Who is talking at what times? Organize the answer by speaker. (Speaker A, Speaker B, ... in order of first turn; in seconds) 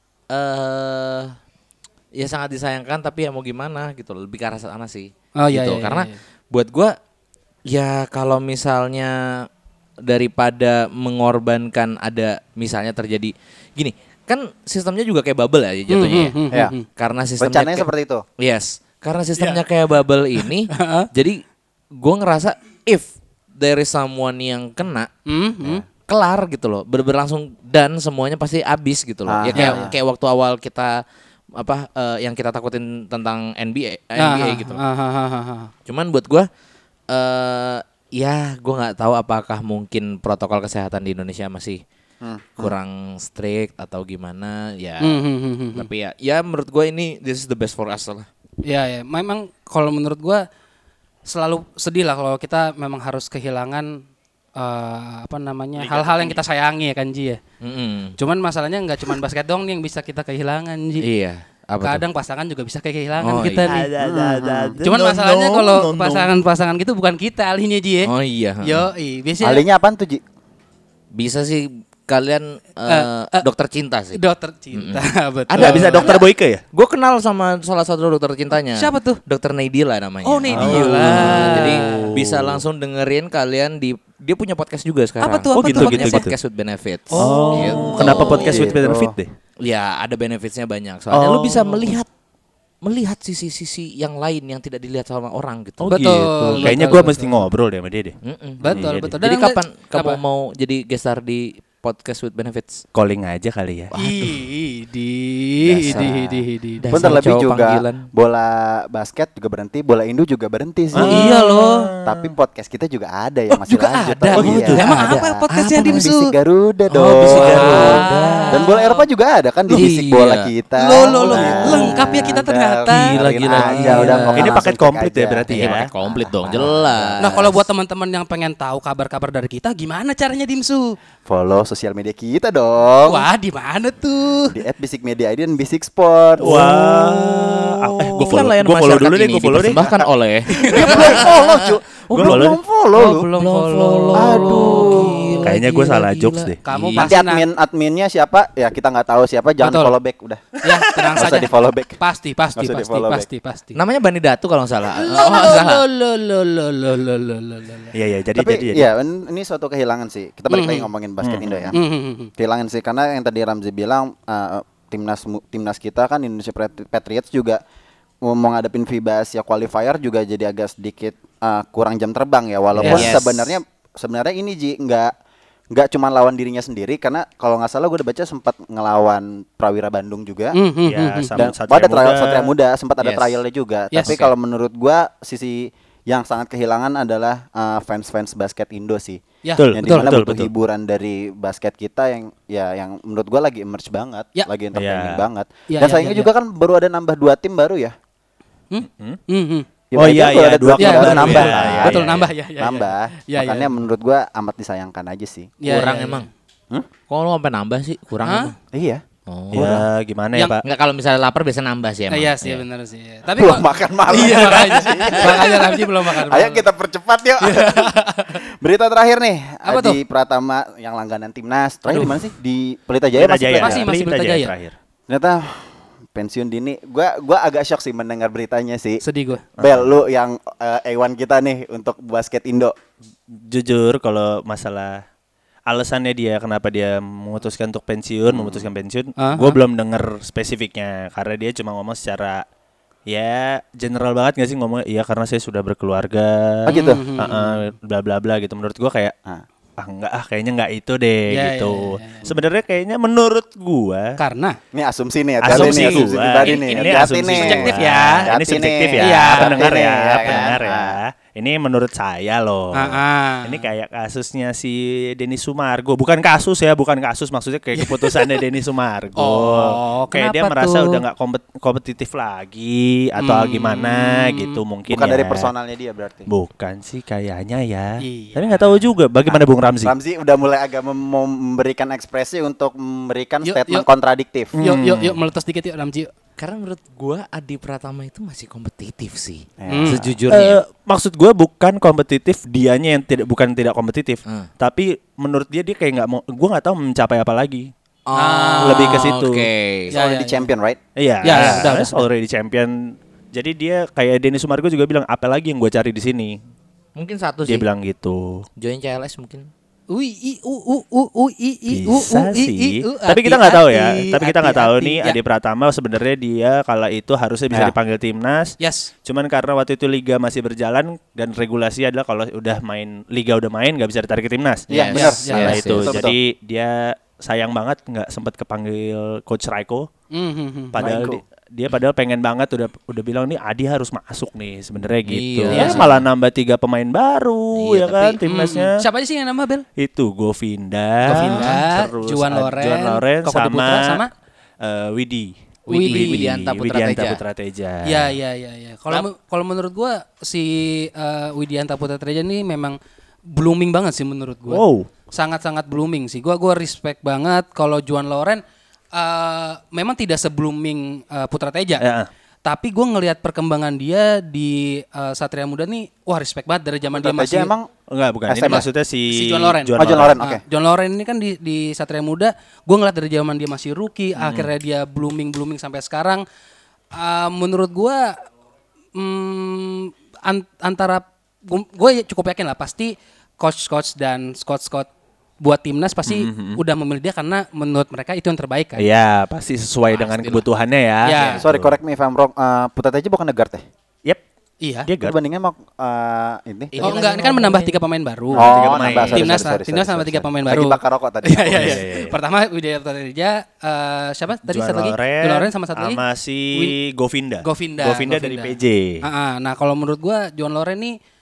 Speaker A: 0.3-1.4, 2.1-6.9, 7.7-9.5, 10.0-16.4, 16.9-21.4, 21.9-25.1, 26.1-31.0, 31.6-34.8, 35.9-36.5, 37.1-41.8, 42.6-45.2, 45.7-48.3, 55.8-56.4, 57.6-58.1, 61.0-62.0, 63.2-63.8, 68.0-68.9, 71.1-74.2, 74.7-88.6, 89.6-92.1, 92.8-96.0, 98.2-102.8, 103.9-104.4, 105.8-108.1, 111.0-111.6, 113.5-116.1, 116.9-118.6, 119.7-120.5, 121.0-124.6, 125.5-127.5, 136.4-137.6, 138.2-142.4, 143.3-147.1, 153.7-155.8, 172.8-173.6, 183.0-183.4, 184.0-184.3, 201.1-201.9, 205.6-206.3, 207.1-208.5, 209.3-209.8, 210.6-212.6, 214.2-215.2, 286.4-290.6, 298.1-299.9, 301.3-301.7, 307.0-307.6, 308.6-309.5, 324.7-326.0, 335.1-336.1, 345.7-347.2, 389.9-390.4, 391.1-391.4, 396.7-397.8, 398.8-399.2
Speaker B: 5.3-6.2, 15.9-16.9, 19.4-19.6, 20.7-21.1, 25.3-25.8, 29.6-29.9, 34.2-35.7, 45.0-45.9, 48.6-50.5, 51.2-54.0, 54.5-57.4, 58.2-61.1, 61.8-63.9, 64.8-69.6, 72.9-73.5, 74.1-76.2, 78.8-79.2, 80.2-82.2, 85.2-86.3, 87.1-88.7, 95.8-97.5, 98.6-100.2, 103.9-107.1, 111.0-111.9, 114.7-116.3, 117.2-119.0, 120.8-124.3, 127.2-130.9, 133.0-134.6, 140.5-141.3, 142.9-145.5, 146.6-147.4, 149.6-149.9, 150.6-153.8, 154.9-157.9, 160.5-160.9, 161.7-162.3, 172.8-173.1, 180.5-181.4, 189.4-190.1, 195.7-196.3, 198.7-199.7, 200.8-203.8, 205.6-206.3, 208.2-208.5, 212.1-216.6, 217.4-218.4, 219.7-220.0, 221.9-222.2, 223.5-224.5, 229.0-229.4, 239.2-239.6, 246.7-247.7, 251.3-252.3, 254.2-254.6, 255.5-258.3, 259.0-260.5, 262.7-263.6, 267.8-268.2, 269.2-271.0, 273.2-274.6, 278.0-278.8, 283.4-283.9, 284.6-286.1, 289.7-290.0, 298.2-299.1, 299.9-300.5, 301.2-302.0, 309.9-315.2, 318.6-318.9, 324.9-325.6, 330.1-330.8, 335.5-335.8, 337.6-339.6, 341.0-344.1, 345.7-346.2, 347.8-352.8, 353.3-358.4, 358.9-361.8, 362.4-367.5, 368.4-376.2, 376.9-378.1, 378.9-384.9, 385.4-388.9, 391.0-391.4, 394.6-394.9, 396.8-406.0, 407.4-410.9
Speaker C: 17.4-18.2, 29.3-29.9, 42.2-42.7, 64.0-64.8, 69.4-70.2, 88.0-89.1, 106.9-111.3, 112.0-127.6, 131.2-133.3, 134.5-136.8, 140.6-143.3, 144.1-145.2, 147.0-150.5, 151.2-152.0, 152.6-153.3, 158.3-161.8, 162.4-167.6, 168.2-175.1, 175.7-180.6, 181.3-189.2, 189.7-197.9, 199.9-202.1, 202.6-205.5, 208.7-209.8, 213.3-223.9, 225.1-229.0, 229.6-232.7, 238.3-238.7, 246.7-247.0, 254.7-261.0, 274.9-276.3, 279.2-284.5, 289.6-290.1, 299.9-300.8, 324.7-326.1, 330.8-331.2, 335.5-335.8, 366.9-367.7, 368.3-368.6, 369.8-370.4, 391.4-393.6, 395.0-397.0, 398.3-401.8
Speaker D: 63.7-66.3, 75.6-76.6, 80.5-82.6, 85.5-86.3, 87.2-89.3, 91.1-92.0, 95.8-99.2, 102.9-103.9, 105.7-106.0, 110.9-112.3, 114.3-114.8, 124.3-125.8, 136.4-139.8, 142.1-142.6, 145.4-146.6, 150.7-151.2, 157.9-158.9, 161.2-161.7, 172.7-173.1, 180.8-182.5, 189.6-190.5, 194.7-195.2, 198.8-199.2, 199.9-202.3, 209.5-210.6, 223.2-224.7, 229.6-229.9, 233.3-235.0, 235.7-242.4, 243.1-249.1, 249.8-254.2, 255.4-275.5, 276.3-279.9, 284.6-285.2, 290.3-297.7, 298.6-299.5, 300.9-306.4, 307.4-308.4, 311.7-324.7, 325.3-329.9, 330.7-338.8, 339.8-344.0, 344.6-348.1, 354.5-354.9, 361.8-362.1, 367.9-370.2, 374.2-374.5, 386.1-386.6, 388.8-391.8, 394.8-395.1, 398.3-399.3, 401.5-402.2, 404.4-409.0